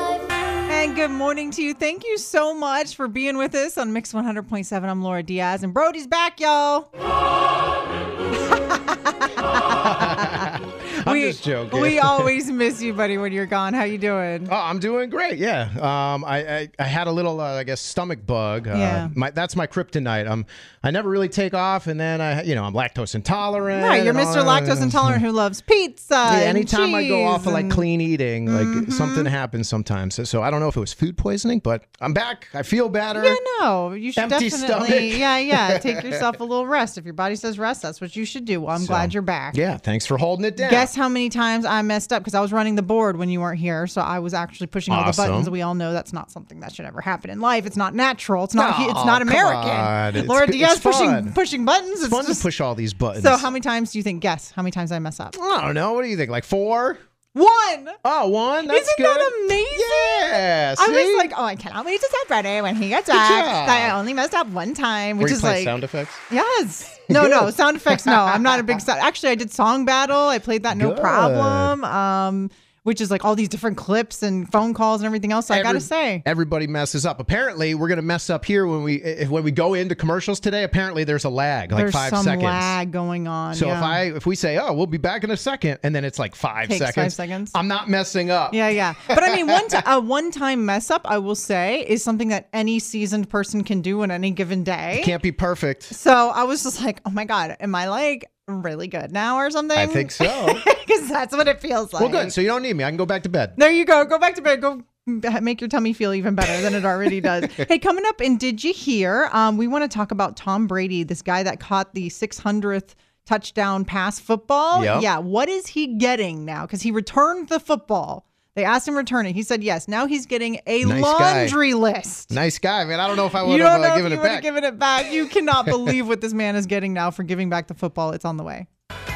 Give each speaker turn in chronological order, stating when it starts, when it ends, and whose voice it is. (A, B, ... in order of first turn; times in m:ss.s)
0:00.7-0:06.9 A
0:08.4-0:14.5 A
0:09.7-0:12.3 B
0:14.5-0:25.2 B
0:18.7-0:19.1 A
0:23.7-0:27.8 A
0:26.2-0:33.4 B
0:28.4-0:29.3 A
0:33.1-0:39.6 A
0:34.2-0:36.2 B
0:38.8-0:40.9 B
0:40.6-0:52.4 A
0:44.9-0:45.5 B
0:48.6-0:51.4 B
0:52.0-0:53.5 B
0:53.2-0:55.4 A
0:55.3-0:57.0 B
0:57.3-0:58.0 A
0:58.0-1:01.3 B
0:58.7-1:05.7 A
1:03.1-1:04.0 B
1:05.2-1:06.2 B
1:06.3-1:16.2 A
1:07.1-1:08.8 B
1:10.7-1:11.7 B
1:15.5-1:22.8 B
1:21.7-1:24.0 A
1:23.5-1:28.6 B
1:26.7-1:27.6 A
1:28.5-1:35.1 A
1:29.1-1:29.7 B
1:35.0-1:35.9 B
1:35.9-1:42.3 A
1:39.7-1:40.6 B
1:42.0-1:43.6 B
1:43.6-2:02.4 A
1:47.2-1:47.7 B
1:54.7-1:55.1 B
2:00.8-2:01.6 B
2:02.3-2:04.5 B
2:03.4-2:08.7 A